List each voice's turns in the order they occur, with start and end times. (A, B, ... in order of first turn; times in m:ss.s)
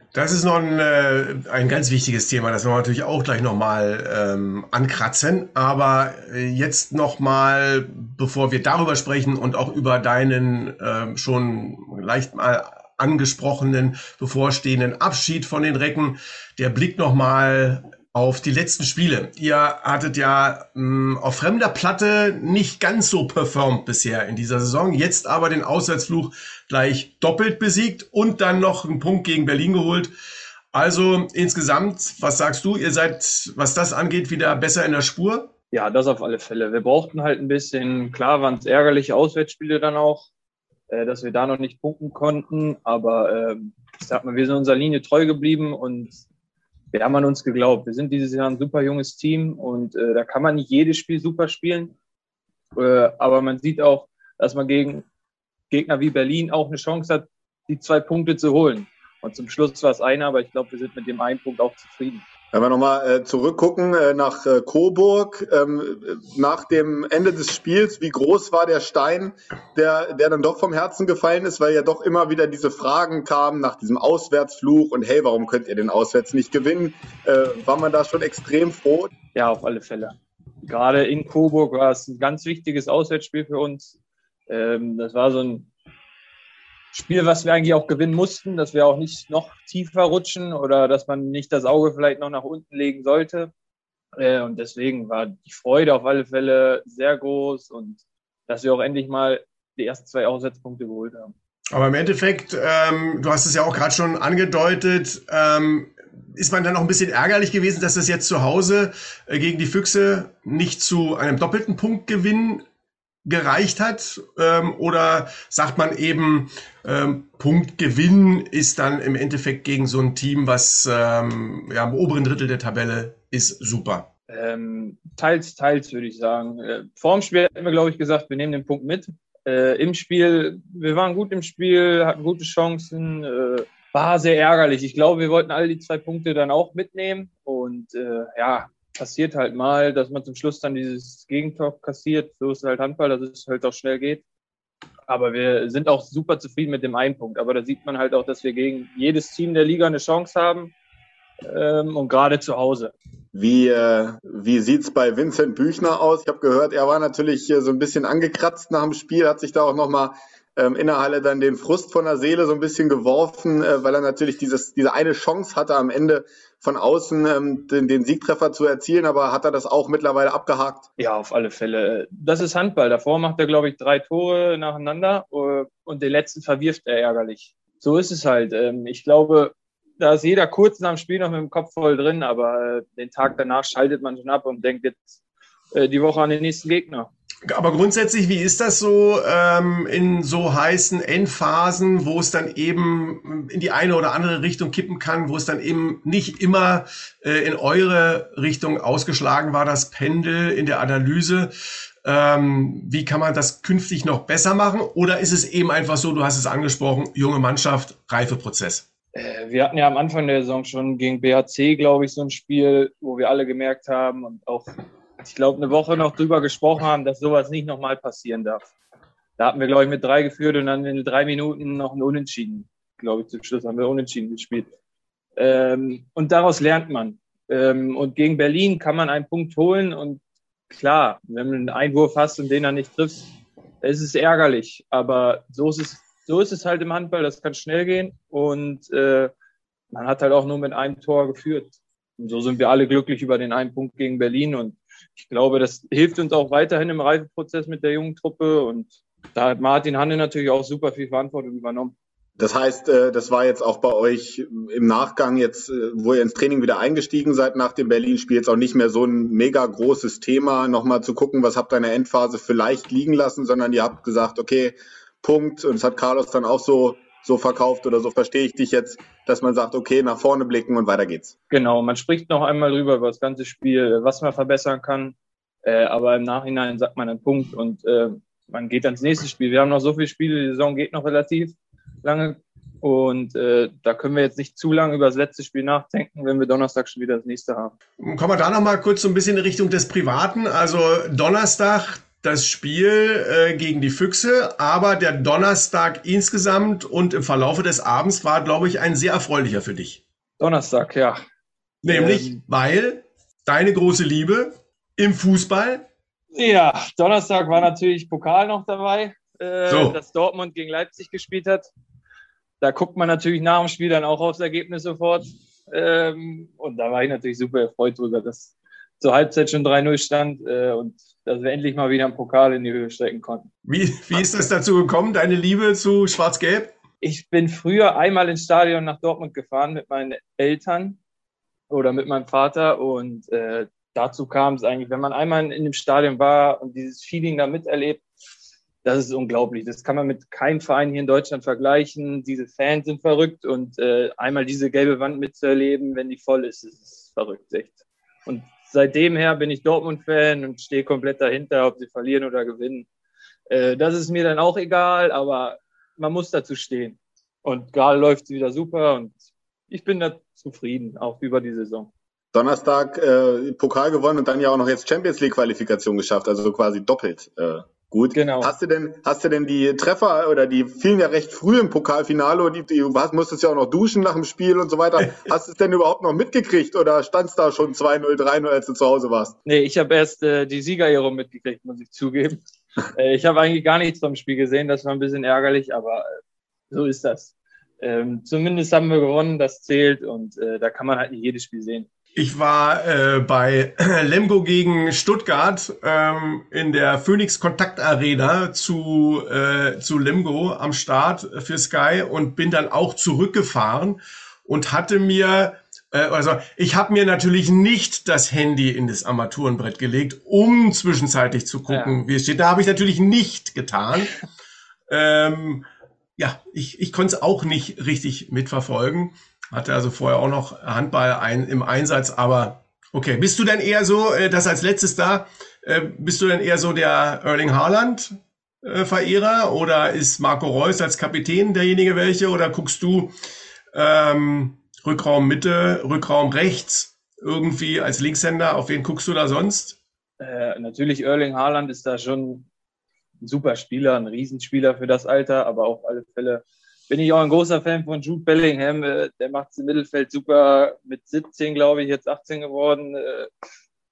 0:00.1-0:30.1 A
0:30.7-0:35.5 A
0:35.7-0:40.3 B
0:40.9-0:46.2 B
0:46.9-0:51.9 B
0:52.8-0:55.1 B
0:55.7-1:02.2 B
1:02.5-1:19.1 C
1:19.3-1:23.9 B
1:24.5-1:25.7 B
1:26.9-1:33.5 B
1:34.2-1:41.3 B
1:41.7-1:52.6 A
1:53.2-2:04.1 A
2:04.3-2:24.2 B
2:25.1-2:30.7 B
2:31.5-2:32.9 B
2:33.3-2:50.9 C
2:51.0-3:05.2 B
3:05.7-3:07.1 B
3:07.5-3:28.8 A
3:29.1-3:38.7 B
3:39.4-3:44.7 B
3:45.4-3:53.3 B
3:53.8-3:59.3 B
3:59.9-4:11.9 B
4:12.4-4:31.4 C
4:31.5-4:47.7 B
4:48.0-5:00.0 A
5:00.4-5:01.2 B
5:01.8-5:05.9 A
5:01.9-5:02.4 B
5:06.3-5:11.7 B
5:09.7-5:10.0 A
5:12.6-5:23.5 B
5:23.7-5:26.7 A
5:27.0-5:31.0 B
5:31.7-5:38.0 B
5:38.8-5:52.9 B
5:53.5-6:01.9 B
6:02.3-6:19.4 C
6:08.2-6:08.5 B
6:19.4-6:26.1 B
6:26.7-6:31.9 B
6:32.2-6:54.2 A
6:51.7-6:52.0 B
6:54.9-7:13.1 A
7:13.7-7:19.8 A
7:20.2-7:22.5 B
7:23.2-7:33.3 B